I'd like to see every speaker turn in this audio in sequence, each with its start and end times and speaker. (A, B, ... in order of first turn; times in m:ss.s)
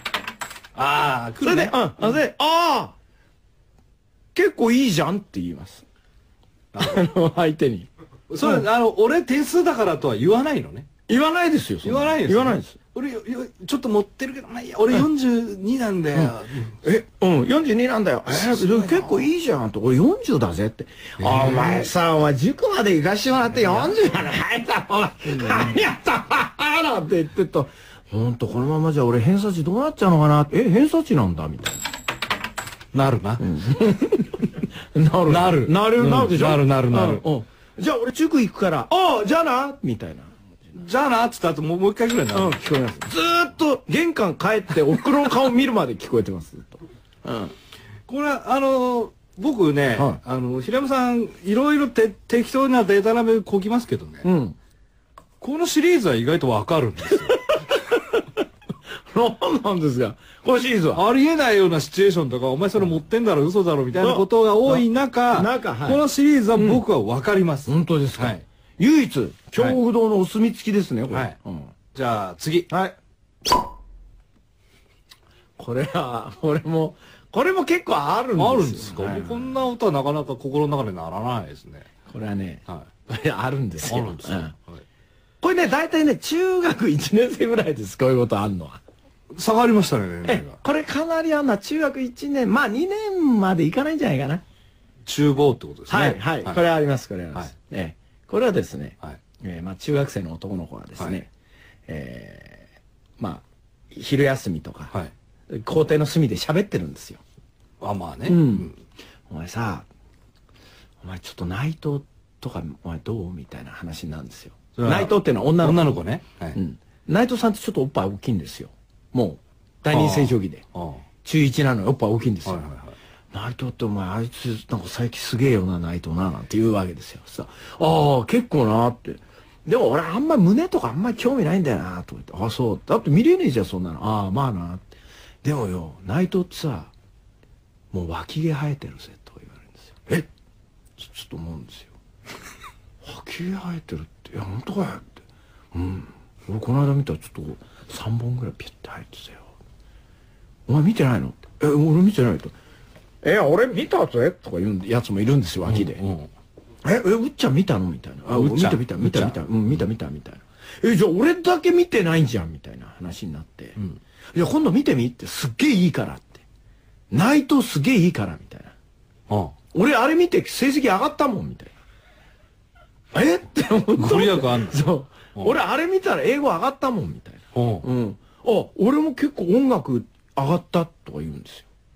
0:00.8-0:02.1 A
0:01.4-0:03.0 B
0:04.4-0:05.8 B
0:06.7-0:07.1 A
0:06.8-0:07.9 B
0:08.3-0:10.9 A
0:11.1-0:12.8 B
0:11.8-0:16.8 A
0:16.2-0:31.8 B
0:18.3-0:19.3 A
0:21.2-0:21.9 A
0:25.3-0:25.8 A
0:32.9-0:33.5 A
0:33.4-0:40.3 B
0:35.3-0:37.3 A
0:40.8-0:42.6 A
0:42.3-0:47.5 B
0:48.1-0:54.3 A
0:50.0-0:50.2 B
0:54.2-0:54.6 B
0:55.4-0:57.4 A
0:57.8-0:58.0 B
0:59.1-1:01.0 B
1:00.9-1:08.4 A
1:04.0-1:06.0 B
1:06.5-1:06.8 B
1:07.7-1:11.7 B
1:11.1-1:11.4 A
1:11.9-1:12.7 A
1:12.7-1:13.0 B
1:15.6-1:19.6 B
1:18.4-1:21.9 A
1:22.1-1:24.5 B
1:23.8-1:24.8 A
1:25.4-1:28.8 B
1:29.3-1:30.6 A
1:30.2-1:34.4 B
1:35.0-1:36.6 A
1:35.9-1:41.3 B
1:41.9-1:42.6 B
1:43.2-1:44.9 B
1:45.5-1:47.2 B
1:47.8-1:48.8 A
1:48.3-1:48.7 B
1:49.3-1:49.9 B
1:51.0-1:56.0 B
1:54.8-1:56.6 A
1:56.5-2:00.6 B
1:59.9-2:01.0 A
2:01.2-2:02.6 B
2:02.4-2:03.0 A
2:03.3-2:14.9 B
2:15.4-2:16.9 B
2:17.9-2:20.3 B
2:21.0-2:21.9 B
2:23.0-2:25.2 B
2:25.7-2:29.5 B
2:30.7-2:32.5 B
2:33.2-2:36.0 B
2:35.6-2:36.3 A
2:36.8-2:43.8 B
2:38.3-2:39.8 A
2:44.3-2:46.4 B
2:47.1-2:48.7 B
2:49.3-2:49.6 A
2:49.7-2:51.7 B
2:53.1-3:01.7 B
2:54.0-2:55.6 A
2:57.5-2:57.9 A